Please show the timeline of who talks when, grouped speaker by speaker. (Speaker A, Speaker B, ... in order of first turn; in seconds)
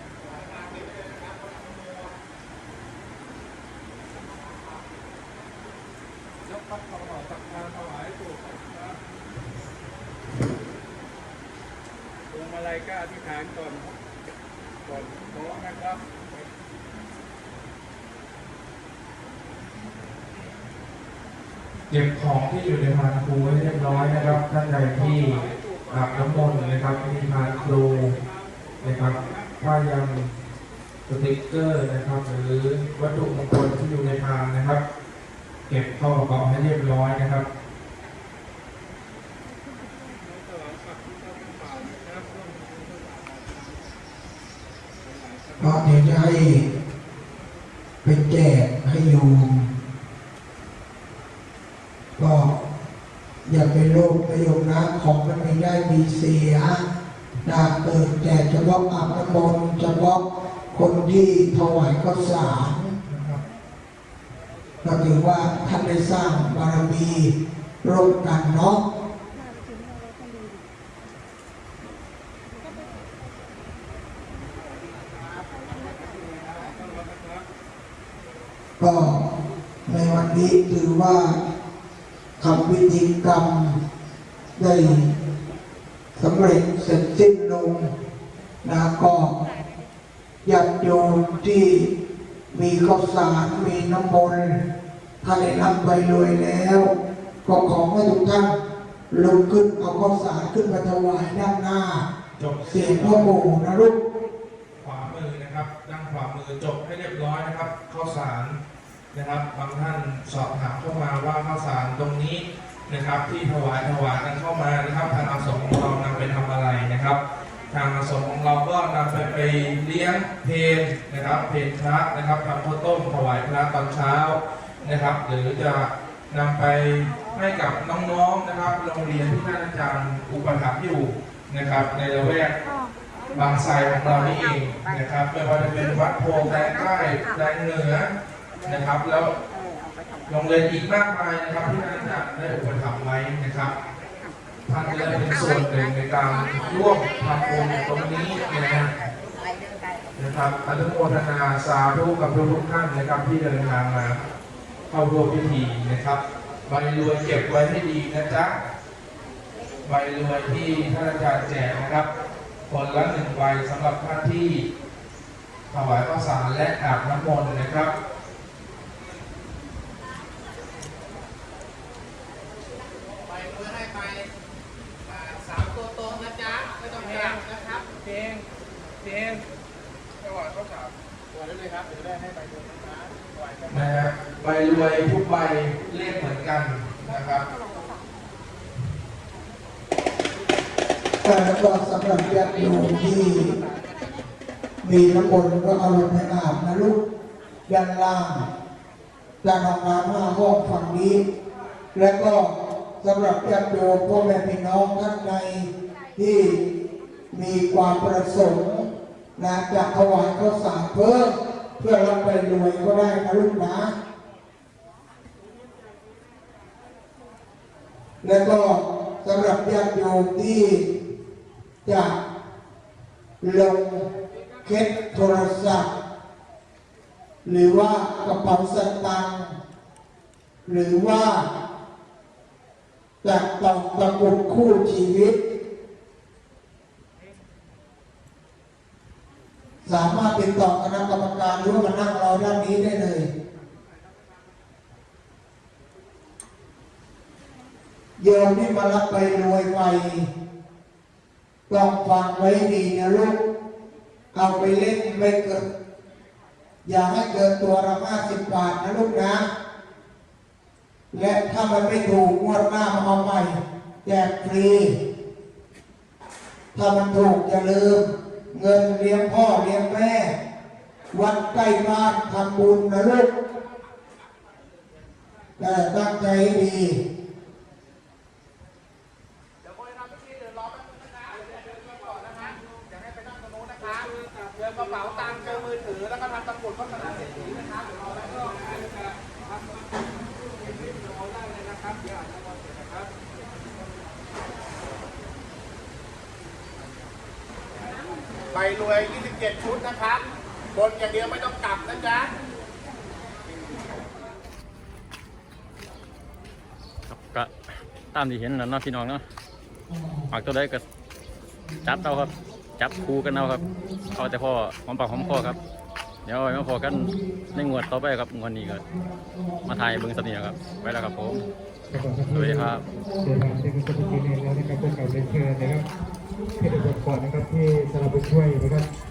Speaker A: 0.6-1.9, 173.3-174.3, 175.1-178.0, 280.0-288.8, 291.6-291.9, 298.5-302.3
Speaker B: 21.9-28.2, 28.8-30.3, 31.1-34.8, 35.7-37.5, 63.0-63.4, 102.4-103.4, 104.8-108.6, 109.1-117.2, 117.7-132.6, 133.3-138.1, 138.7-139.3, 140.3-143.7, 144.7-148.9, 150.2-154.2, 154.9-158.6, 159.8-162.1, 162.7-164.7, 165.7-167.9, 183.7-187.4
Speaker C: 45.6-46.6, 48.0-49.7, 52.2-52.5, 53.5-56.8, 57.4-60.2, 60.7-62.9, 64.8-68.8, 78.8-79.2, 79.9-81.4, 82.4-83.8, 84.5-85.1, 86.2-87.9, 88.6-89.3, 90.5-91.9, 92.5-94.6, 95.2-96.9, 97.5-98.6, 99.1-102.0, 102.7-104.0, 191.2-193.6, 194.8-197.0, 197.7-198.4, 199.4-201.2, 201.9-206.6, 207.3-213.9, 218.2-220.8, 221.8-222.2, 223.4-224.1, 224.6-225.9, 227.4-229.6, 230.7-231.4, 233.2-235.3, 239.8-243.3, 248.2-250.3, 251.7-253.4, 254.3-255.6, 256.9-259.4, 261.1-264.9, 266.7-270.3, 271.1-273.3, 275.6-277.0
Speaker D: 307.1-307.5, 308.1-309.2, 310.3-310.8, 311.8-315.6, 316.2-318.9, 319.6-321.5, 322.3-322.8
Speaker E: 321.9-325.9, 326.6-328.9